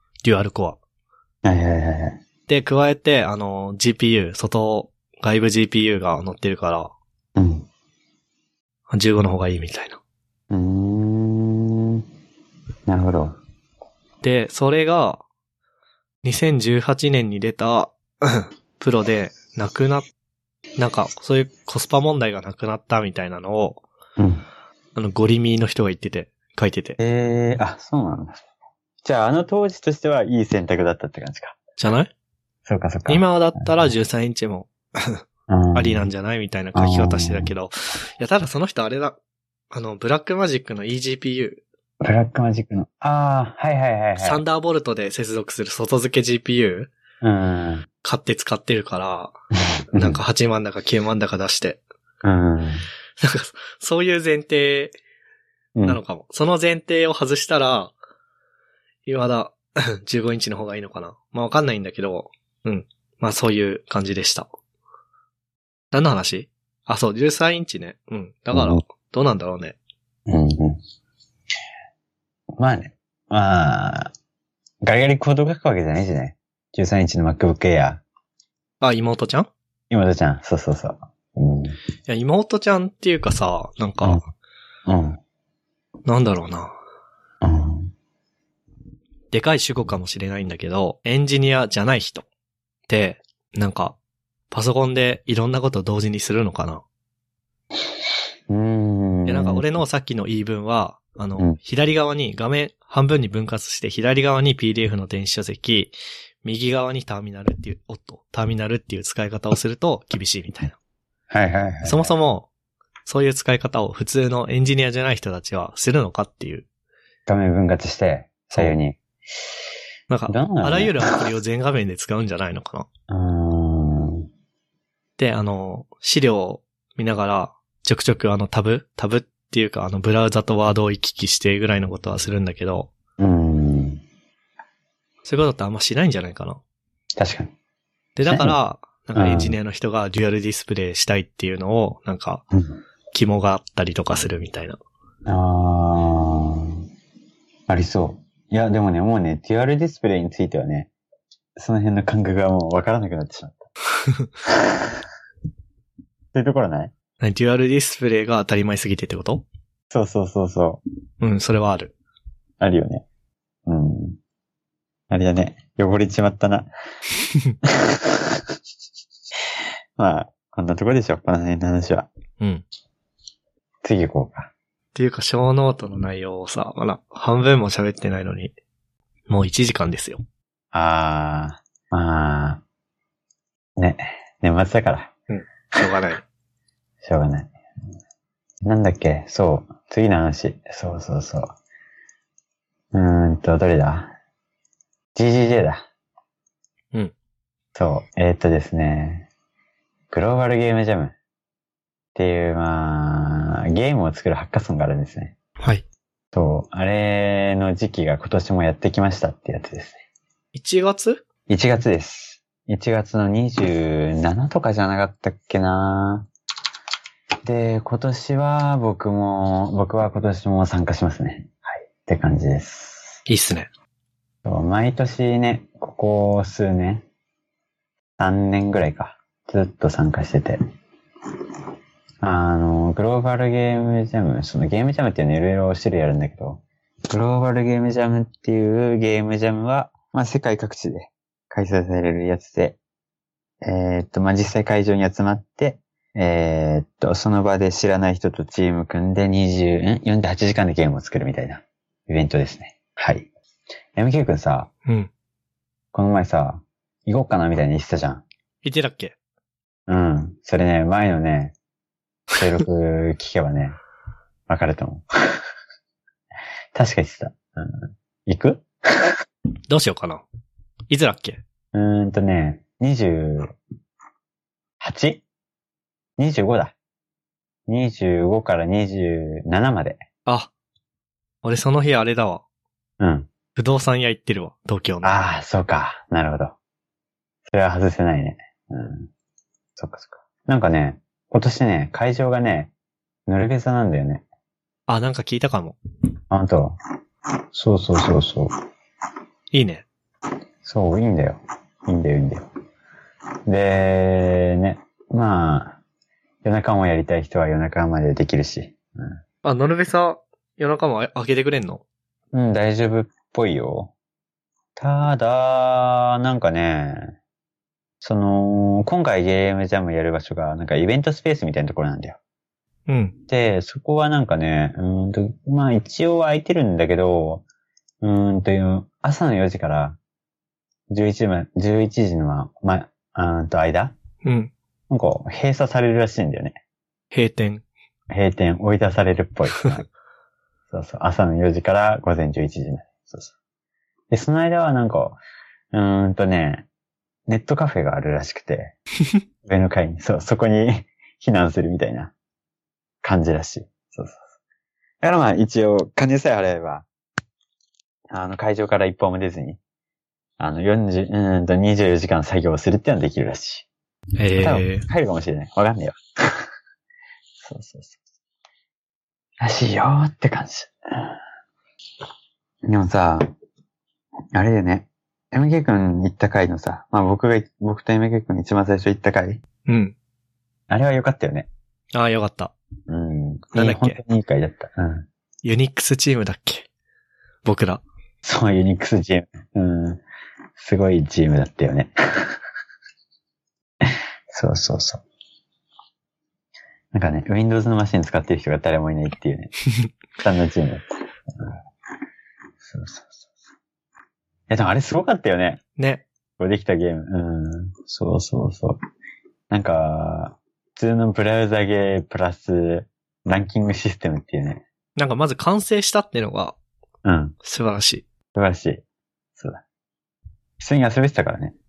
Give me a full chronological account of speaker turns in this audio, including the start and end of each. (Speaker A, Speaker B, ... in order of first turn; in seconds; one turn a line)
Speaker A: 0.2-0.8
Speaker B: 1.4-2.2
Speaker A: 2.5-6.9
Speaker B: 7.3-7.7
Speaker A: 8.9-10.0
Speaker B: 10.5-12.0
Speaker B: 12.9-13.3
Speaker A: 14.2-15.2
Speaker A: 16.2-20.1
Speaker A: 20.8-23.8
Speaker B: 24.2-24.4
Speaker A: 24.9-27.0
Speaker B: 27.0-28.4
Speaker B: 29.0-31.6
Speaker A: 31.8-32.1
Speaker B: 32.6-33.9
Speaker A: 33.1-35.2
Speaker B: 35.5-36.1
Speaker A: 35.7-39.2
Speaker B: 36.7-37.5
Speaker A: 39.7-41.6
Speaker B: 42.0-44.4
Speaker A: 44.2-46.9
Speaker B: 47.2-47.9
Speaker A: 48.0-49.3
Speaker B: 49.9-50.2
Speaker A: 49.9-51.8
Speaker B: 52.2-52.8
Speaker A: 53.2-55.0
Speaker A: 55.8-57.9
Speaker A: 59.0-64.5
Speaker A: 65.9-69.8
Speaker B: 68.5-68.8
Speaker B: 70.3-70.8
Speaker B: 72.5-74.1
Speaker B: 74.8-78.0
Speaker A: 78.8-79.5
Speaker B: 79.9-81.8
Speaker A: 82.1-84.2
Speaker B: 84.9-85.2
Speaker A: 86.0-86.7
Speaker B: 87.4-87.9
Speaker A: 89.3-92.2
Speaker A: 92.9-94.0
Speaker A: 94.5-96.8
Speaker B: 98.5-99.6
Speaker A: 99.2-110.8
Speaker B: 111.3-112.1
Speaker A: 111.8-112.5
Speaker A: 113.0-116.7
Speaker B: 117.3-119.0
Speaker A: 120.1-122.9
Speaker B: 120.3-121.1
Speaker B: 123.1-124.2
Speaker A: 125.2-132.9
Speaker B: 133.2-134.0
Speaker A: 135.2-136.6
Speaker B: 137.2-137.5
Speaker A: 138.2-142.4
Speaker B: 138.2-138.6
Speaker B: 139.1-139.6
Speaker A: 143.1-144.8
Speaker B: 145.2-146.8
Speaker B: 147.7-150.9
Speaker B: 151.6-153.7
Speaker B: 154.5-155.0
Speaker B: 156.3-156.9
Speaker A: 157.2-159.4
Speaker B: 159.9-160.8
Speaker A: 161.2-161.9
Speaker B: 162.6-163.0
Speaker B: 163.7-164.2
Speaker B: 165.1-166.7
Speaker B: 167.7-168.4
Speaker B: 170.0-172.1
Speaker B: 173.8-174.5
Speaker A: 174.9-178.5
Speaker A: 179.3-180.2
Speaker B: 180.7-182.6
Speaker B: 183.8-185.1
Speaker A: 185.3-186.2
Speaker B: 187.0-187.5
Speaker B: 188.6-191.5
Speaker B: 192.9-194.1
Speaker B: 195.1-195.8
Speaker B: 197.7-199.3
Speaker B: 200.1-201.1
Speaker B: 202.1-205.3
Speaker A: 205.6-205.8
Speaker B: 206.3-210.0
Speaker A: 210.5-211.2
Speaker B: 211.5-216.3
Speaker B: 217.4-223.2
Speaker A: 223.3-223.7
Speaker B: 224.4-227.0
Speaker B: 228.2-230.6
Speaker B: 232.2-242.8
Speaker B: 243.6-253.3
Speaker B: 253.9-254.7
Speaker B: 255.9-258.2
Speaker A: 258.6-259.1
Speaker B: 259.9-261.5
Speaker B: 262.4-263.8
Speaker B: 264.5-265.4
Speaker B: 266.7-269.2
Speaker A: 269.7-270.2
Speaker A: 270.9-271.4
Speaker B: 271.7-273.5
Speaker B: 274.8-275.2
Speaker B: 276.2-276.7
Speaker B: 277.7-280.0
Speaker A: 280.2-280.5
Speaker A: 281.4-282.4
Speaker B: 283.0-283.3
Speaker A: 283.6-285.2
Speaker B: 285.0-286.6
Speaker B: 287.5-289.1
Speaker B: 289.8-292.7
Speaker B: 293.3-294.2
Speaker A: 294.9-295.8
Speaker B: 296.3-296.8
Speaker B: 297.5-298.5
Speaker A: 299.5-299.9
Speaker B: 300.6-302.4
Speaker B: 303.5-305.8
Speaker B: 306.4-309.2
Speaker A: 309.4-311.8
Speaker B: 312.3-313.9
Speaker B: 314.8-317.1
Speaker B: 318.0-322.2
Speaker A: 322.9-323.1
Speaker B: 323.3-327.4
Speaker B: 328.0-330.0
Speaker B: 330.9-333.9
Speaker A: 334.2-334.5
Speaker B: 334.9-336.6
Speaker A: 337.1-337.6
Speaker B: 338.1-339.9
Speaker B: 340.7-343.3
Speaker B: 344.1-345.2
Speaker B: 345.7-346.6
Speaker B: 347.3-348.7
Speaker B: 349.4-352.1
Speaker B: 353.0-354.2
Speaker B: 355.0-356.9
Speaker B: 358.1-359.6
Speaker B: 360.4-363.6
Speaker A: 364.2-364.9
Speaker B: 364.4-366.4
Speaker B: 367.4-367.9
Speaker B: 369.4-371.2
Speaker B: 372.6-373.3
Speaker B: 374.3-379.4
Speaker A: 379.6-379.9
Speaker B: 380.7-381.5
Speaker A: 381.9-382.5
Speaker B: 382.9-385.1
Speaker A: 383.5-384.0
Speaker A: 385.4-386.7
Speaker A: 387.4-387.8
Speaker B: 388.2-390.0
Speaker B: 390.6-392.4
Speaker B: 393.8-395.0
Speaker B: 396.9-399.5
Speaker B: 400.2-401.6
Speaker B: 402.6-403.2
Speaker B: 404.5-405.6
Speaker A: 405.8-406.0
Speaker B: 406.4-408.8
Speaker B: 409.5-414.6
Speaker A: 414.9-416.6
Speaker B: 417.0-417.4
Speaker A: 417.4-418.0
Speaker B: 418.3-418.8
Speaker B: 419.4-419.6
Speaker B: 420.6-421.5